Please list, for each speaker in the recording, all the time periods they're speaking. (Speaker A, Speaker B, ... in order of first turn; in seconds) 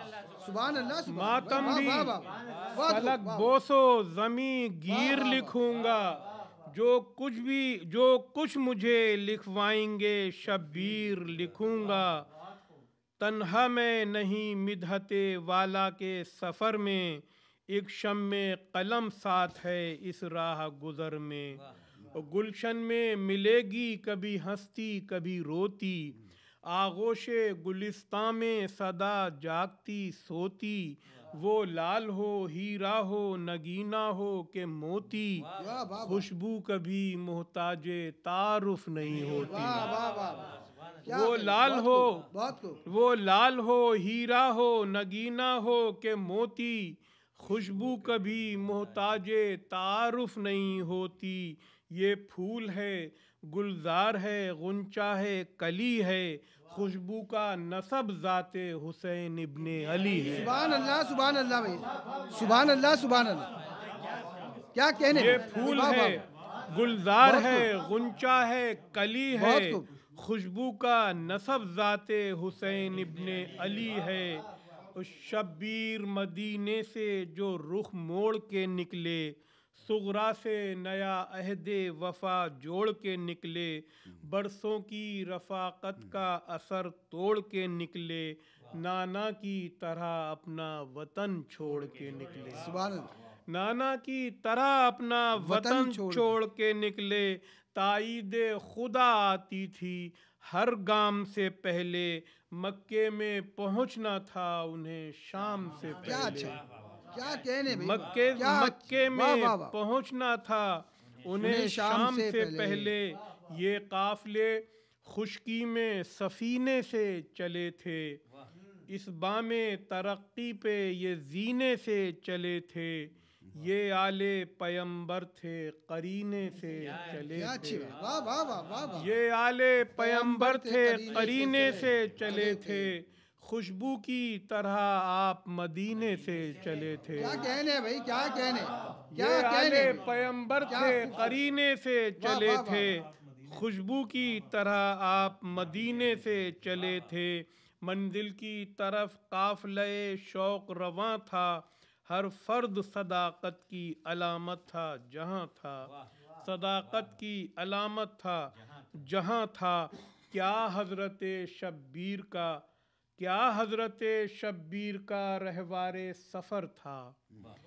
Speaker A: 0.4-3.5, 4.9-5.5, 35.6-36.3, 39.4-40.5, 41.0-42.8, 60.2-63.5, 64.7-66.2, 67.2-67.7, 69.3-69.9, 92.6-93.1, 95.4-96.3, 106.0-106.6, 107.1-109.8, 111.4-112.9, 127.3-129.1, 130.0-132.9, 137.2-140.1, 140.7-141.4, 142.2-142.9
Speaker B: 1.1-2.1, 2.8-12.3, 13.2-21.6, 22.1-35.5, 36.0-39.9, 41.1-42.2, 42.9-60.5, 65.1-74.5, 75.0-92.7, 93.5-106.6, 107.7-118.2, 118.9-127.9, 129.0-137.4, 139.1-162.6, 163.2-167.2